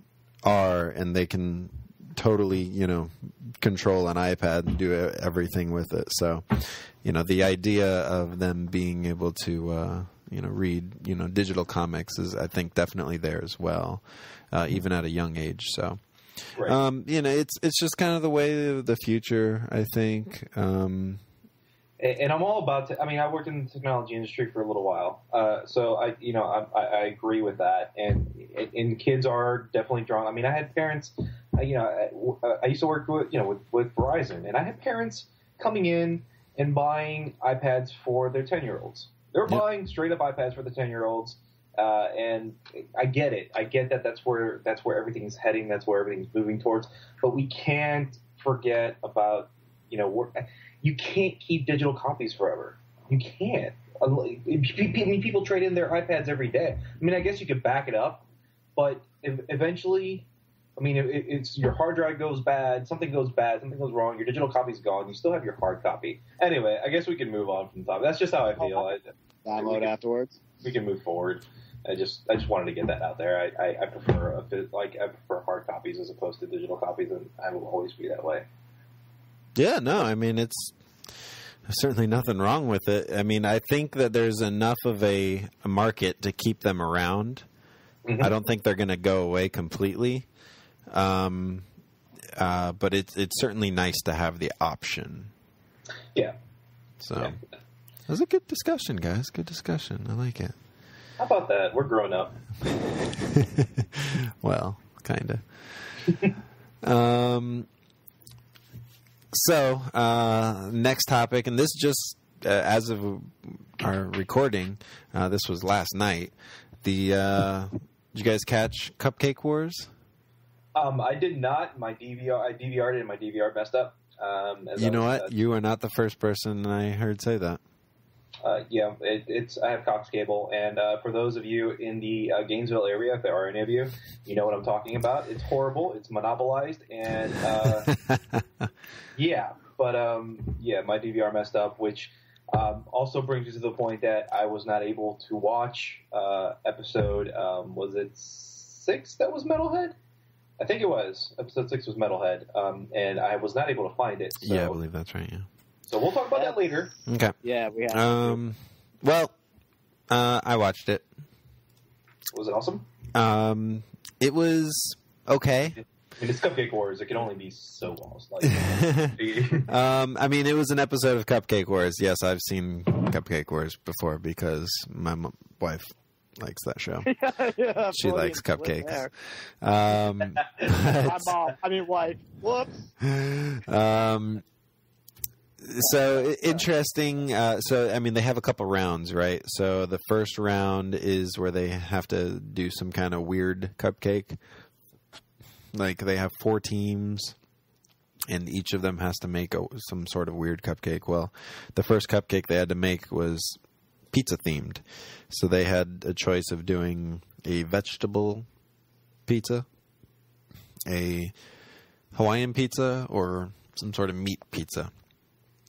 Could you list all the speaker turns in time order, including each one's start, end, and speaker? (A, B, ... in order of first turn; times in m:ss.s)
0:00.4-0:21.2 A
0:22.0-0:58.2 B
0:58.8-1:09.9 B
1:08.6-1:10.4 C
1:10.6-1:18.5 B
1:19.6-1:20.8 A
1:21.7-1:27.5 A
1:28.0-1:28.3 B
1:28.2-1:30.3 A
1:30.9-1:31.7 A
1:32.4-1:35.3 A
1:37.0-1:37.4 A
1:38.1-1:40.6 A
1:41.2-1:42.3 B
1:43.2-1:46.2 A
1:46.8-1:47.7 A
1:49.3-1:59.9 A
2:00.8-2:05.3 B
2:04.8-2:07.6 A
2:08.4-2:17.9 B
2:18.1-2:18.4 A
2:19.2-2:30.0 B
2:30.6-2:34.8 B
2:34.4-2:35.5 A
2:35.9-2:36.9 B
2:36.3-2:36.6 C
2:37.1-2:37.4 A
2:37.4-2:38.4 C
2:37.9-2:39.4 A
2:40.1-2:41.1 A
2:42.3-2:42.9 B
2:43.1-2:45.8 A
2:46.2-2:49.7 B
2:48.4-2:57.1 A
2:57.1-2:59.1 C
2:57.9-3:01.4 A
3:01.0-3:02.9 C
3:03.0-3:04.4 A
3:05.6-3:14.4 A
3:15.7-3:17.4 A
3:18.3-3:23.6 A
3:24.1-3:28.5 A
3:29.3-3:29.7 A
3:30.9-3:31.3 A
3:32.1-3:34.9 A